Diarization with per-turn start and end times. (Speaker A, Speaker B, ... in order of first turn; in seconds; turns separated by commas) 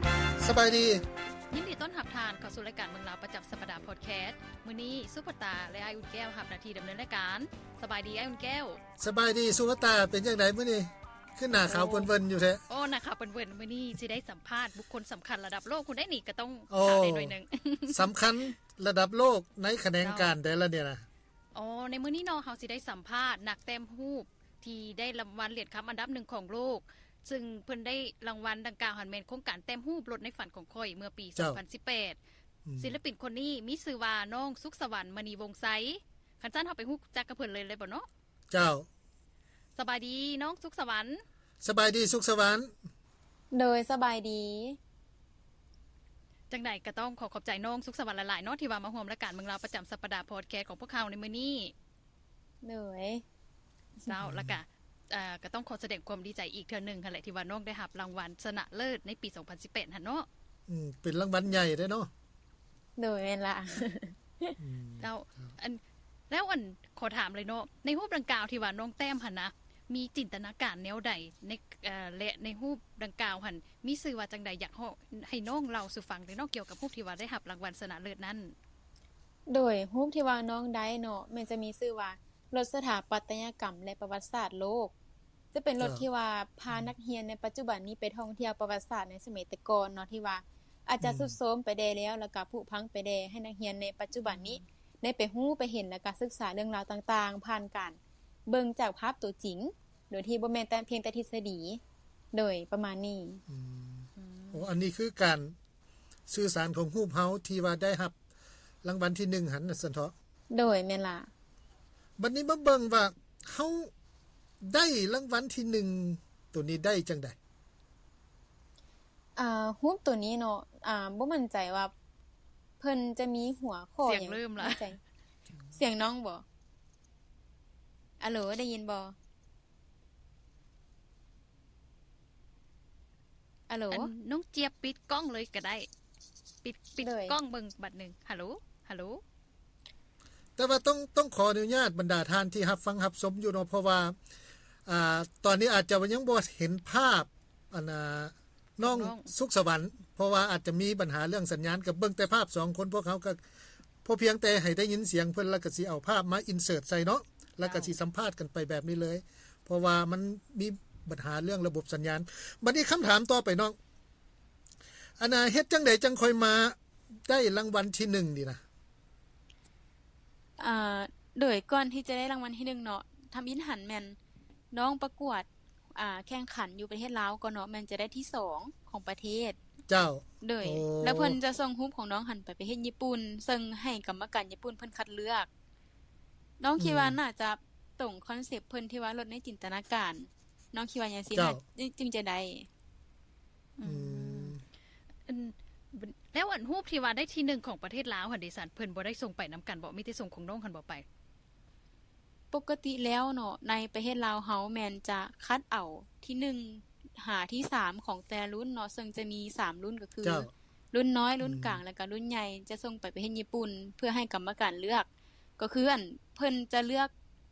Speaker A: 0.4-1.0, Speaker B: 1.5-8.8, Speaker A: 9.0-12.6, Speaker B: 11.7-12.1, Speaker B: 12.7-18.1, Speaker A: 16.7-17.4, Speaker A: 17.9-21.1, Speaker B: 20.0-20.3, Speaker B: 21.5-32.2, Speaker A: 32.7-32.9, Speaker B: 32.8-38.1, Speaker A: 38.5-38.9, Speaker B: 39.8-41.2, Speaker A: 41.6-42.7, Speaker C: 43.5-44.8, Speaker B: 46.5-51.7, Speaker C: 52.6-53.2, Speaker B: 54.0-60.3, Speaker A: 54.2-54.6, Speaker A: 60.7-62.1, Speaker C: 63.0-64.6, Speaker A: 64.6-65.5, Speaker B: 65.0-78.5, Speaker C: 79.5-84.9, Speaker C: 85.5-101.8, Speaker A: 91.0-91.3, Speaker B: 94.3-94.6, Speaker C: 102.3-103.4, Speaker A: 103.5-105.5, Speaker B: 104.2-104.7, Speaker A: 106.3-108.2, Speaker A: 108.8-110.1, Speaker C: 110.5-111.3, Speaker A: 112.2-113.9, Speaker A: 114.6-117.4, Speaker C: 119.4-121.9, Speaker C: 122.8-125.0, Speaker B: 124.0-124.9, Speaker C: 125.7-126.4, Speaker C: 128.2-129.1, Speaker C: 133.7-134.1, Speaker B: 133.9-135.9, Speaker B: 136.6-139.2, Speaker C: 137.0-137.4, Speaker A: 140.6-144.2, Speaker A: 144.9-153.4, Speaker B: 148.8-149.3, Speaker A: 154.0-163.8, Speaker B: 157.6-157.9, Speaker A: 165.2-168.6, Speaker C: 170.6-174.2, Speaker C: 174.7-179.6, Speaker A: 179.9-181.4, Speaker C: 180.4-185.5, Speaker C: 186.6-192.7, Speaker A: 186.8-187.2, Speaker A: 191.3-191.6, Speaker B: 193.8-194.6, Speaker A: 193.8-194.6, Speaker B: 195.3-201.1, Speaker C: 202.5-215.1, Speaker A: 210.2-210.5, Speaker A: 211.4-211.8, Speaker C: 215.6-217.1